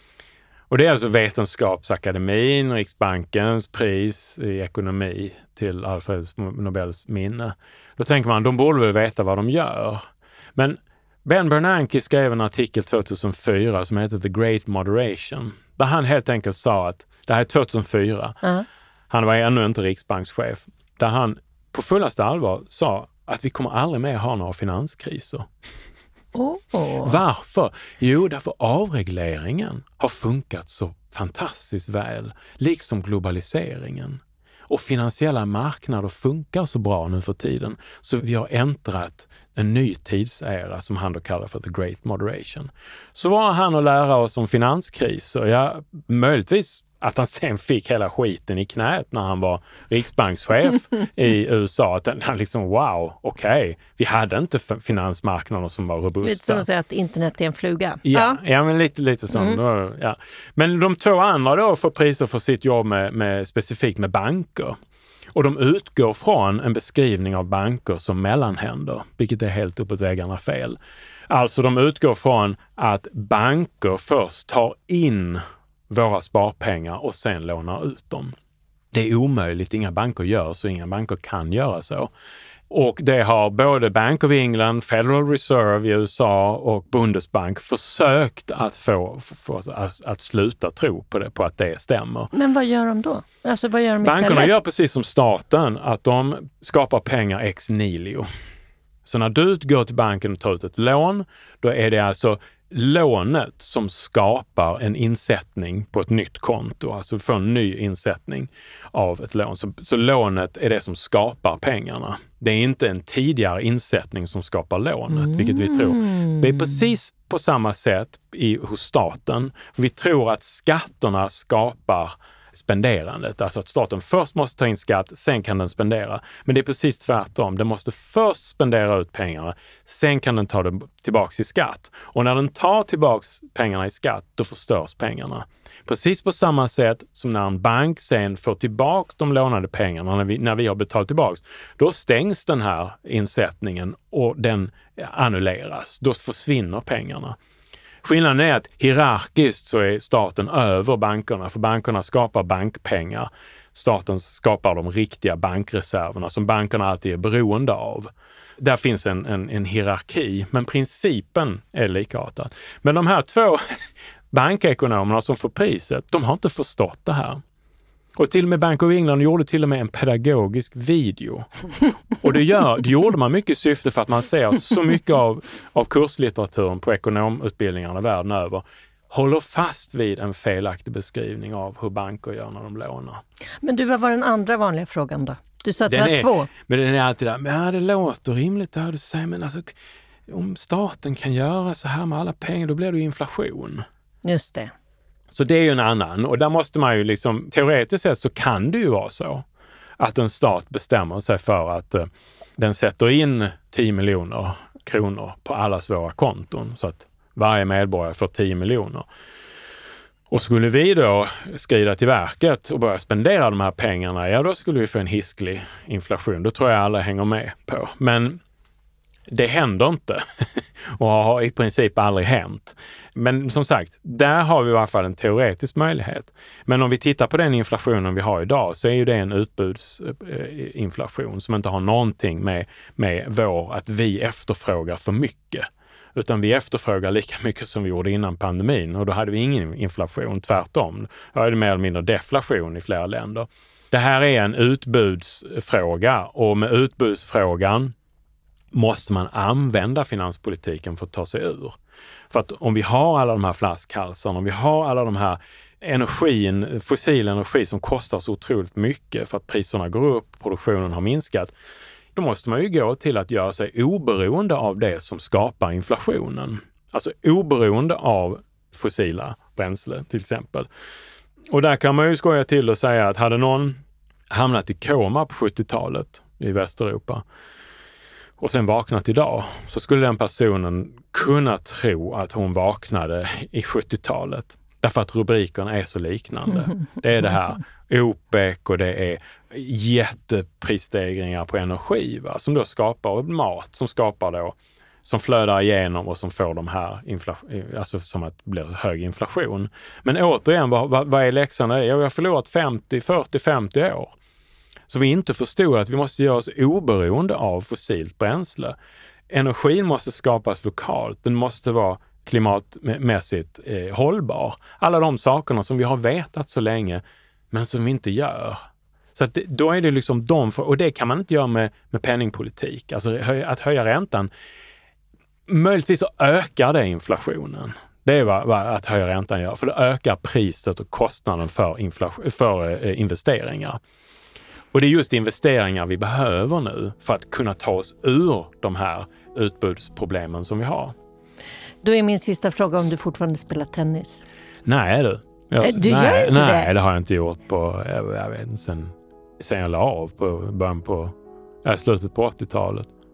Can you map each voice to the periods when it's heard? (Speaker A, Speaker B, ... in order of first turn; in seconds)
Speaker A: 0.7-10.0, 10.6-18.4, 19.1-25.5, 27.0-56.7, 58.0-64.8, 65.3-70.8, 71.3-78.3, 78.9-82.1, 82.7-92.3, 94.0-98.3, 99.0-147.4, 148.0-167.4, 168.2-171.5, 172.2-183.2, 185.9-189.7, 190.3-193.8, 195.3-199.4, 200.0-209.1, 210.3-218.4, 219.3-247.9, 248.7-251.8, 252.3-261.5, 262.1-270.7, 271.5-277.2, 278.4-304.1, 304.9-308.8, 309.3-318.6, 319.1-324.3, 325.5-333.8, 334.7-340.9, 344.6-352.9
Speaker B: 26.3-27.2, 56.2-58.4, 92.3-94.5, 115.1-116.7, 183.6-186.5, 194.2-194.7, 341.8-344.2, 345.6-346.7